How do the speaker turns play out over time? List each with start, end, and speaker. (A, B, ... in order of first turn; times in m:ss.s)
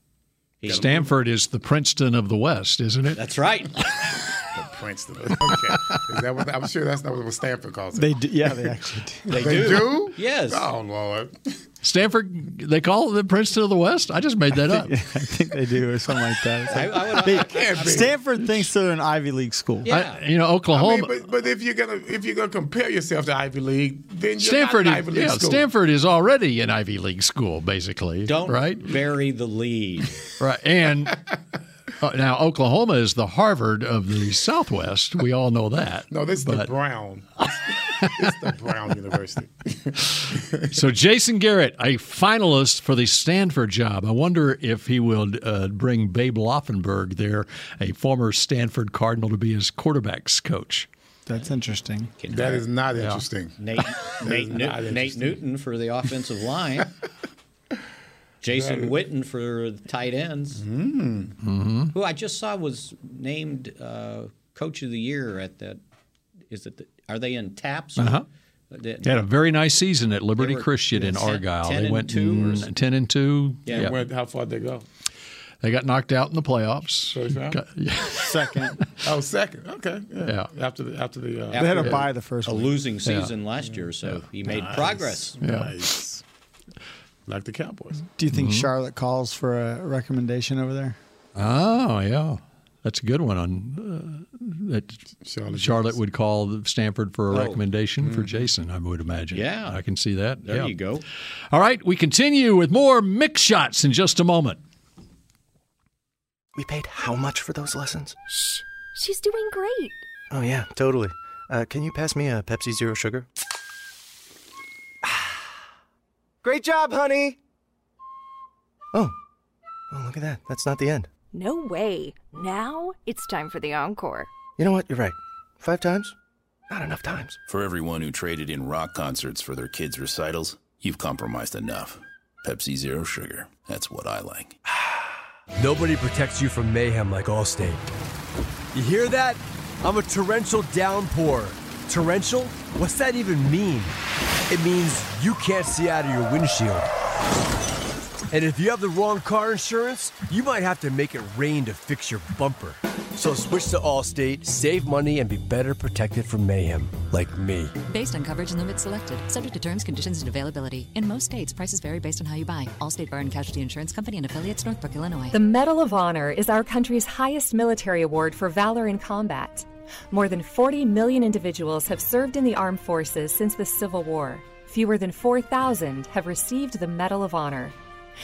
0:00.6-0:01.0 A
0:00.6-0:01.2 B
0:00.7-0:03.2 C
0:03.2-0:04.0 A
0:04.5-0:08.7 B
0:08.0-0:09.6 D
0:09.3-0:10.7 A
0:09.3-0:11.6 B
0:11.8-0:15.0 C
0:14.7-0:19.9 D
0:16.7-0:18.2 A
0:17.2-0:18.2 B
0:19.8-0:20.2 A
0:19.9-0:21.2 C
0:20.7-0:25.7 B
0:24.4-0:28.9 C
0:28.3-0:30.2 A
0:30.4-0:31.2 C
0:32.0-0:36.7 C
0:36.1-0:40.8 B
0:40.7-0:50.9 C
0:51.3-0:52.1 D
0:52.2-0:52.7 A
0:52.3-0:55.4 B
0:53.0-0:53.2 C
0:53.6-0:56.9 A
0:58.4-1:00.6 A
0:58.5-0:59.0 B
1:00.6-1:01.4 B
1:01.4-1:01.9 C
1:01.9-1:05.8 A
1:06.5-1:09.2 A
1:08.0-1:08.2 C
1:09.0-1:14.0 C
1:10.4-1:12.7 A
1:13.7-1:13.9 A
1:13.7-1:14.9 B
1:15.6-1:18.7 C
1:17.1-1:17.6 B
1:18.1-1:18.8 D
1:19.0-1:22.0 B
1:21.5-1:25.4 A
1:21.6-1:22.8 D
1:23.0-1:23.3 C
1:24.4-1:26.2 B
1:25.4-1:25.8 C
1:27.3-1:28.0 B
1:28.2-1:31.0 D
1:28.3-1:28.7 C
1:31.4-1:35.0 C
1:35.2-1:36.0 B
1:35.5-1:40.7 C
1:37.3-1:37.6 A
1:38.0-1:38.5 B
1:39.3-1:39.8 A
1:40.4-1:41.0 A
1:41.5-1:44.6 C
1:46.6-1:48.2 E
1:48.9-1:50.0 F
1:50.3-1:53.3 E
1:55.0-1:55.4 E
1:56.4-1:57.4 E
1:59.9-2:01.1 E
2:01.3-2:04.3 F
2:04.6-2:06.1 E
2:06.7-2:07.4 E
2:07.5-2:14.6 G
2:15.6-2:17.9 H
2:18.7-2:24.0 H
2:24.5-2:26.9 H
2:28.3-2:37.7 H
2:37.9-2:45.4 I
2:45.3-2:57.8 J